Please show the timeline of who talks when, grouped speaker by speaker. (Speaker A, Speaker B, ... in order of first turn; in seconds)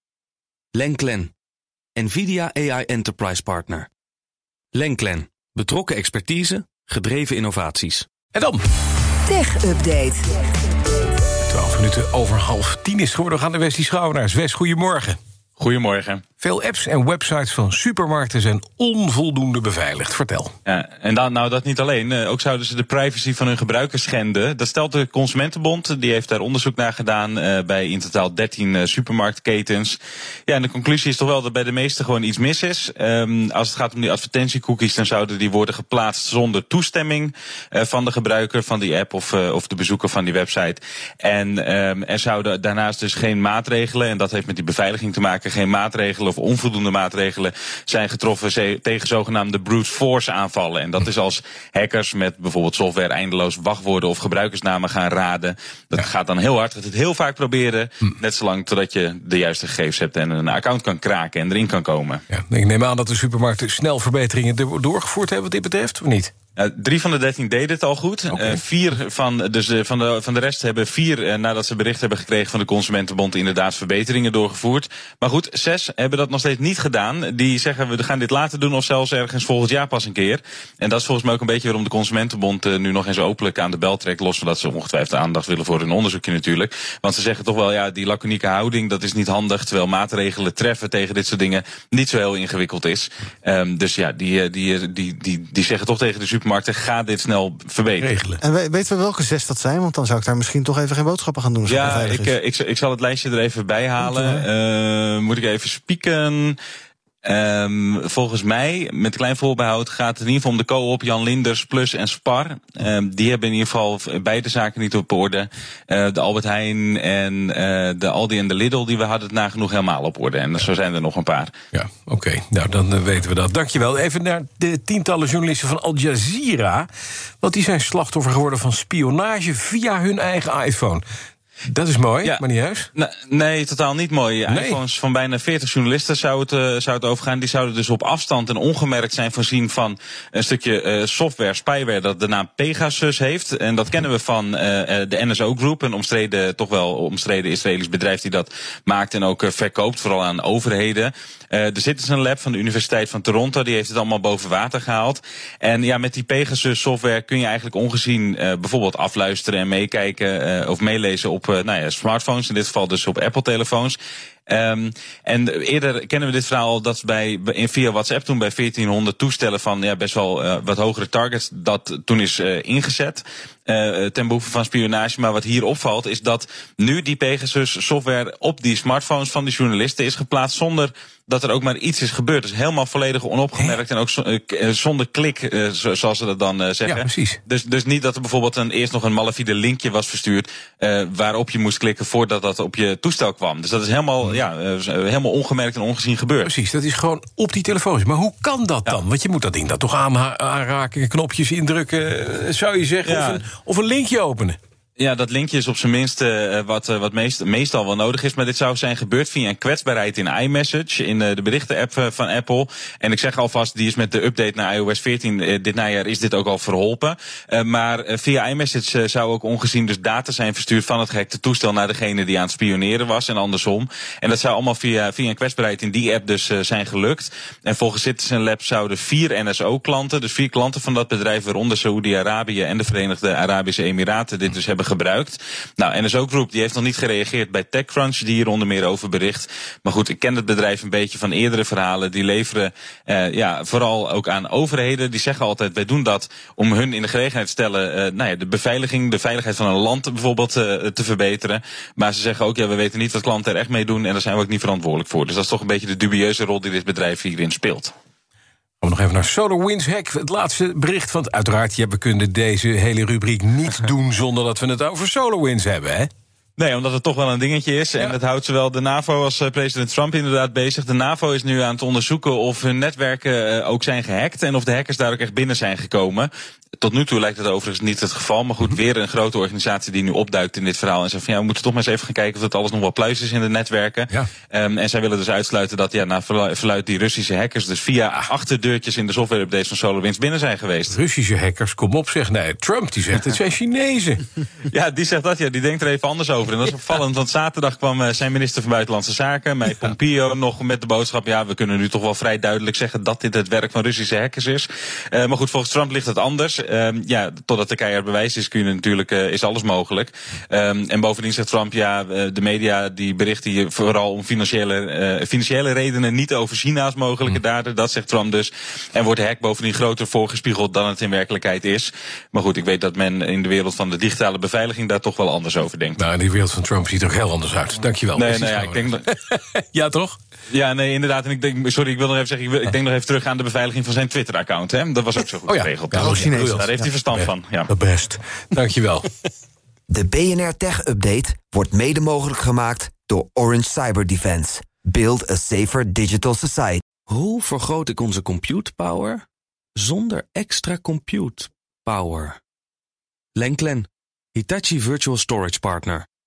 Speaker A: 0.7-1.3, 1.9-3.9, 4.7-8.1, 347.1-349.2, 349.8-352.4, 353.4-356.1
Speaker B: 8.3-8.6, 11.5-15.2, 16.4-20.5, 62.3-66.3, 68.3-68.6, 98.0-98.4, 121.7-126.9, 127.4-131.0, 131.7-132.9, 134.5-134.8, 186.8-187.4, 196.4-204.6, 258.8-266.1, 290.9-294.3, 326.0-330.2, 335.4-339.1
Speaker C: 9.3-10.4, 339.9-346.8
Speaker D: 15.6-16.2, 20.6-62.2, 66.6-98.1, 101.7-106.6, 107.2-121.5, 132.9-164.0, 164.5-196.5, 203.0-203.4, 205.0-257.9, 266.6-291.0, 294.7-326.0, 328.1-329.0, 330.5-337.7
Speaker E: 98.4-102.3, 104.0-104.4, 335.9-336.9